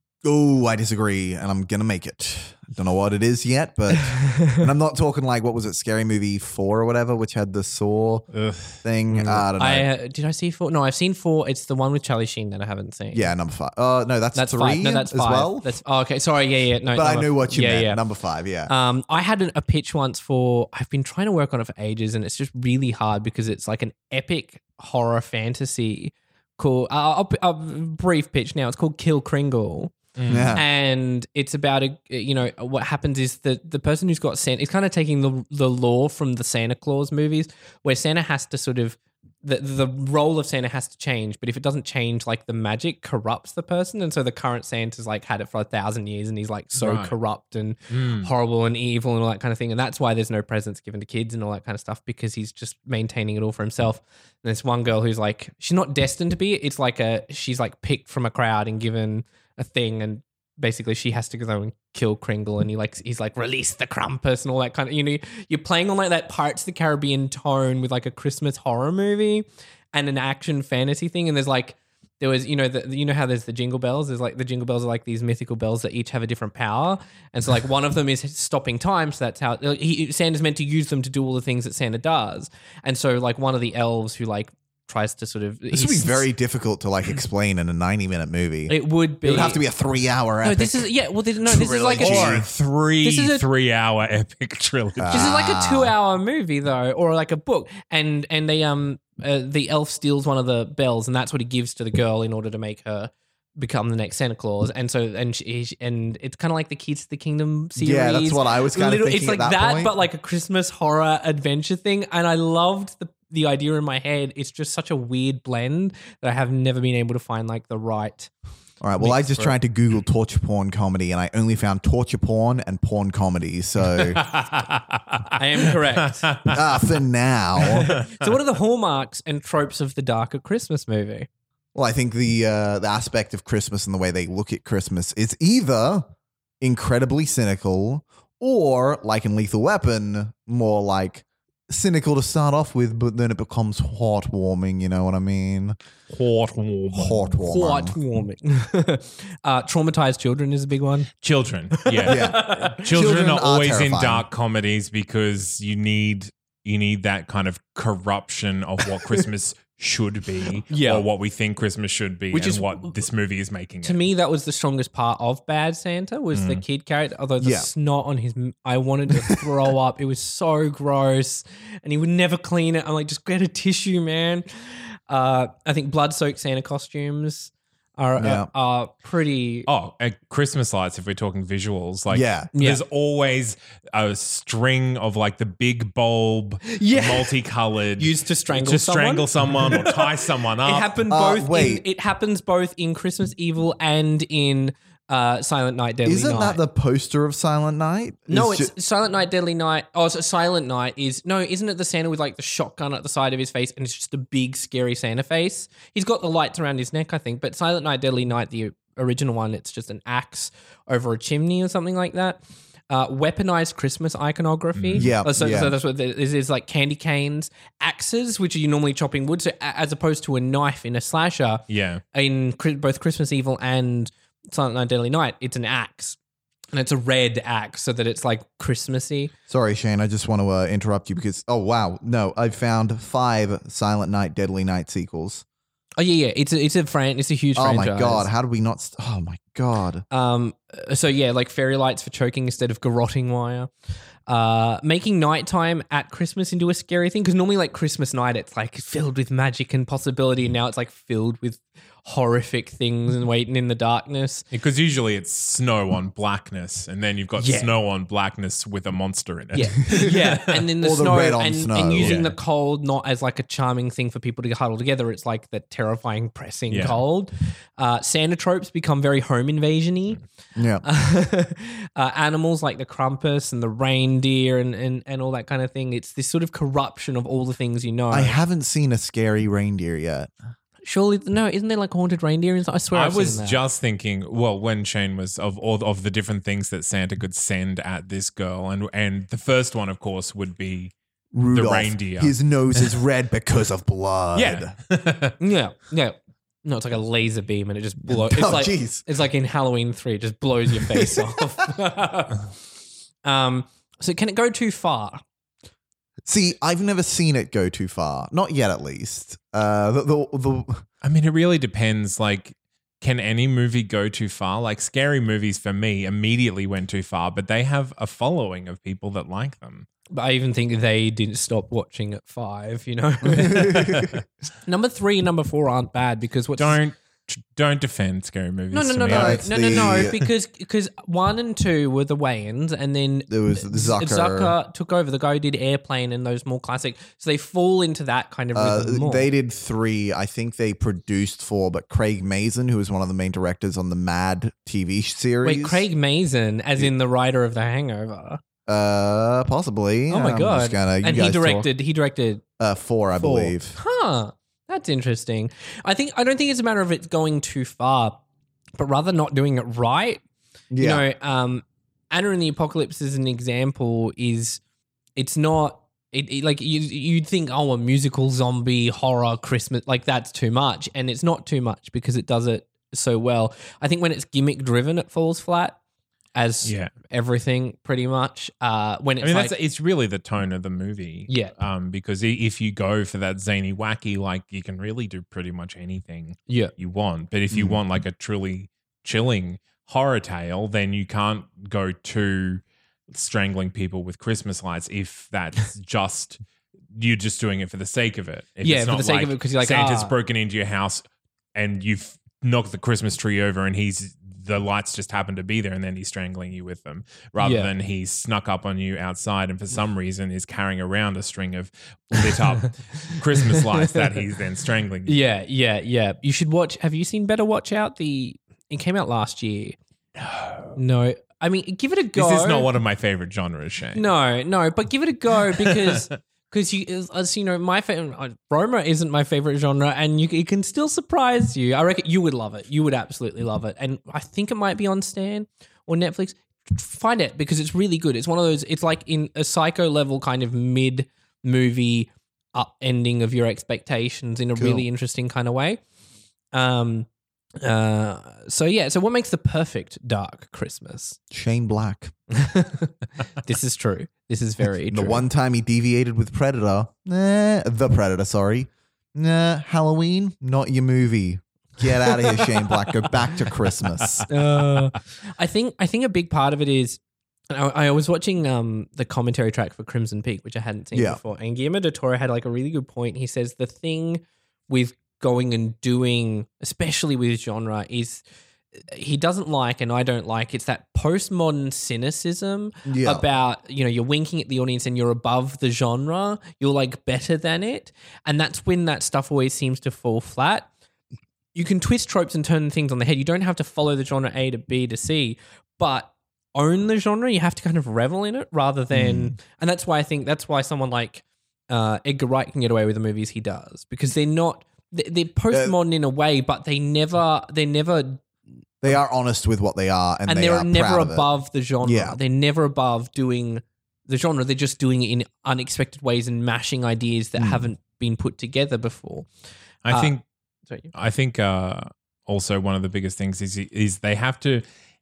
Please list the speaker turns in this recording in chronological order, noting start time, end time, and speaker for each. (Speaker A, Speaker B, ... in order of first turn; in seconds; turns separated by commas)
Speaker A: 0.2-8.3, Speaker B: 4.1-4.6, Speaker C: 8.3-8.8, Speaker A: 8.8-9.9, Speaker B: 9.6-13.3, Speaker A: 13.1-15.7, Speaker B: 14.3-18.0, Speaker A: 16.9-18.7, Speaker B: 18.7-29.9, Speaker C: 30.2-30.6, Speaker A: 30.3-30.6, Speaker B: 30.5-86.3, Speaker C: 46.8-47.1, Speaker C: 47.9-48.3, Speaker A: 85.7-90.9, Speaker B: 88.7-89.6, Speaker B: 90.4-92.4, Speaker A: 91.5-92.5, Speaker C: 92.0-95.3, Speaker B: 93.0-93.5, Speaker A: 95.0-95.9, Speaker B: 95.1-118.3, Speaker A: 107.8-109.9, Speaker A: 118.8-124.2, Speaker B: 119.0-119.6, Speaker C: 124.0-125.4, Speaker B: 125.3-126.4, Speaker C: 126.3-126.6, Speaker A: 126.5-127.9, Speaker B: 127.6-131.3, Speaker A: 131.8-145.8, Speaker C: 146.1-147.4, Speaker A: 146.9-148.0, Speaker B: 147.4-151.1, Speaker C: 151.2-164.1, Speaker B: 151.8-152.9, Speaker A: 152.1-154.3, Speaker B: 160.7-161.1, Speaker B: 162.3-163.0, Speaker B: 163.8-179.7, Speaker C: 166.3-166.6, Speaker A: 167.4-167.7, Speaker A: 178.2-178.5, Speaker C: 179.7-190.9, Speaker A: 182.1-182.5, Speaker B: 182.6-182.8, Speaker B: 186.7-187.3, Speaker B: 188.0-196.6, Speaker A: 191.1-191.8, Speaker A: 196.1-198.7, Speaker B: 198.3-226.2, Speaker C: 214.8-215.1, Speaker A: 215.0-215.8, Speaker C: 221.7-222.0, Speaker B: 226.7-229.3, Speaker A: 229.5-235.4, Speaker B: 236.0-238.3, Speaker A: 237.6-240.0, Speaker B: 240.1-243.7, Speaker B: 244.3-254.5, Speaker C: 254.5-260.6, Speaker B: 257.4-257.7, Speaker B: 259.5-270.2, Speaker A: 260.8-262.2, Speaker C: 262.0-262.4, Speaker C: 266.7-267.0, Speaker A: 270.6-270.8, Speaker B: 270.8-278.4, Speaker A: 278.1-280.3, Speaker B: 280.8-283.6, Speaker C: 282.9-290.9, Speaker A: 291.3-294.7, Speaker C: 291.5-293.0, Speaker C: 294.4-295.4, Speaker B: 295.4-302.4, Speaker A: 298.1-299.0, Speaker A: 300.8-301.4, Speaker B: 303.2-305.2, Speaker A: 306.3-310.8, Speaker C: 311.0-319.9, Speaker B: 320.1-324.1, Speaker A: 323.3-324.1, Speaker B: 324.6-326.8, Speaker C: 326.6-330.2, Speaker B: 328.7-339.3, Speaker A: 329.1-330.1, Speaker A: 333.3-334.5, Speaker A: 338.6-345.9, Speaker B: 345.4-348.4, Speaker A: 348.7-351.7, Speaker B: 350.1-352.4, Speaker A: 352.6-353.8, Speaker B: 353.2-358.2, Speaker B: 358.8-360.2, Speaker A: 360.7-361.0, Speaker B: 360.8-364.6, Speaker B: 365.2-375.8, Speaker B: 376.4-379.6, Speaker C: 376.6-376.9, Speaker C: 379.2-396.4, Speaker B: 381.3-381.5, Speaker A: 387.5-387.8, Speaker C: 396.9-401.0, Speaker B: 398.6-400.1, Speaker C: 401.6-415.2, Speaker B: 407.4-407.7, Speaker B: 413.5-414.0, Speaker B: 415.1-419.8, Speaker C: 420.2-420.8, Speaker B: 420.8-422.7, Speaker C: 422.1-424.0, Speaker B: 423.9-445.8, Speaker C: 425.5-425.9, Speaker A: 444.6-444.9, Speaker B: 446.5-447.1, Speaker B: 447.6-451.2, Speaker A: 451.3-452.1, Speaker B: 452.3-455.2, Speaker A: 454.9-464.3, Speaker B: 464.3-478.2, Speaker A: 470.9-471.2, Speaker B: 478.9-490.7, Speaker A: 482.9-483.2, Speaker B: 491.5-508.2, Speaker A: 498.9-499.4, Speaker A: 508.8-511.3, Speaker B: 510.3-519.3, Speaker A: 511.8-512.2, Speaker A: 517.4-517.7, Speaker C: 519.9-520.2, Speaker B: 519.9-520.1, Speaker C: 520.9-524.6